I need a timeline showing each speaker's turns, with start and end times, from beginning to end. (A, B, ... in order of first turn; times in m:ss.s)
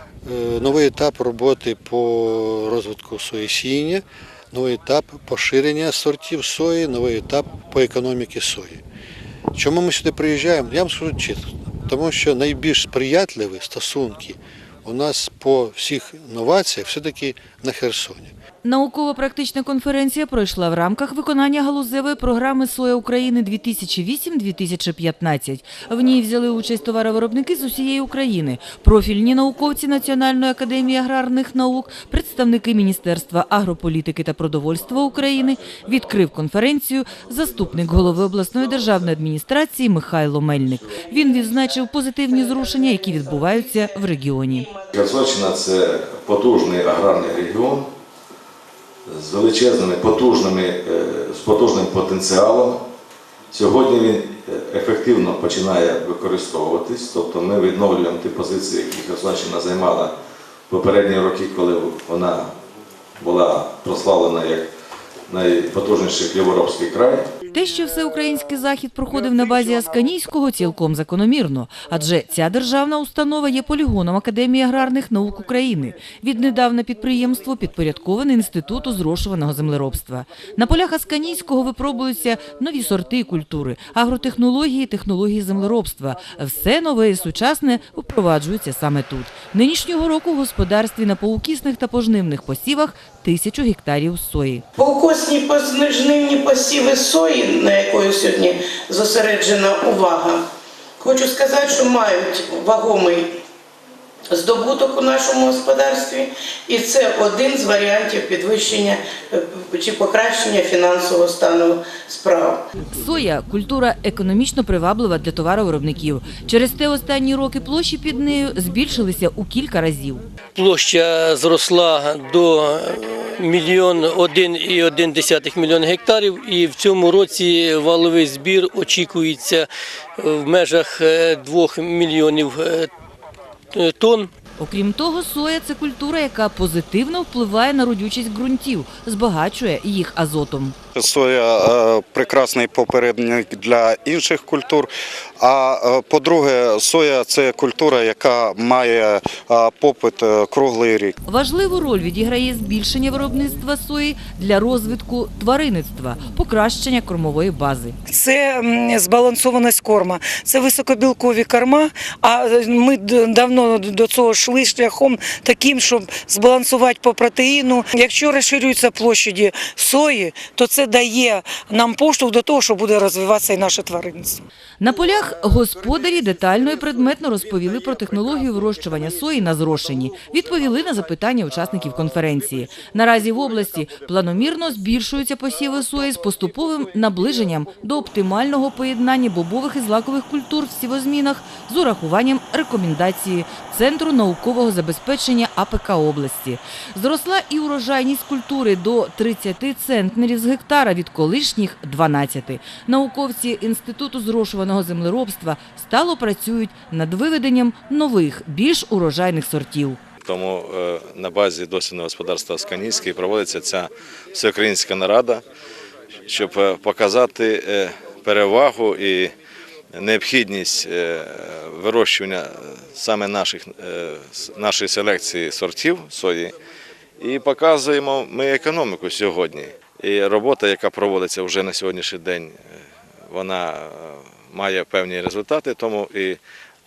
0:00.2-0:08.8 A
0:09.5-0:18.3 A
0:18.6-0:44.7 B
0:44.9-0:47.9 C
0:49.1-0:52.8 C
0:53.5-1:00.1 C
1:00.7-1:02.5 C
1:03.2-1:04.7 C
1:05.3-1:07.3 C
1:07.5-1:34.6 B
1:34.8-1:40.4 D
1:41.0-1:43.3 D
1:44.3-1:52.6 D
1:52.9-2:00.2 B
2:00.5-2:12.9 E
2:13.7-2:14.3 E
2:14.6-2:20.8 B
2:20.9-2:31.2 F
2:31.3-2:38.0 B
2:38.1-2:54.4 G
2:54.8-3:30.0 B
3:30.2-3:35.4 C
3:36.3-3:39.3 C
3:40.0-3:46.6 C
3:47.2-3:52.6 C
3:53.3-3:56.4 C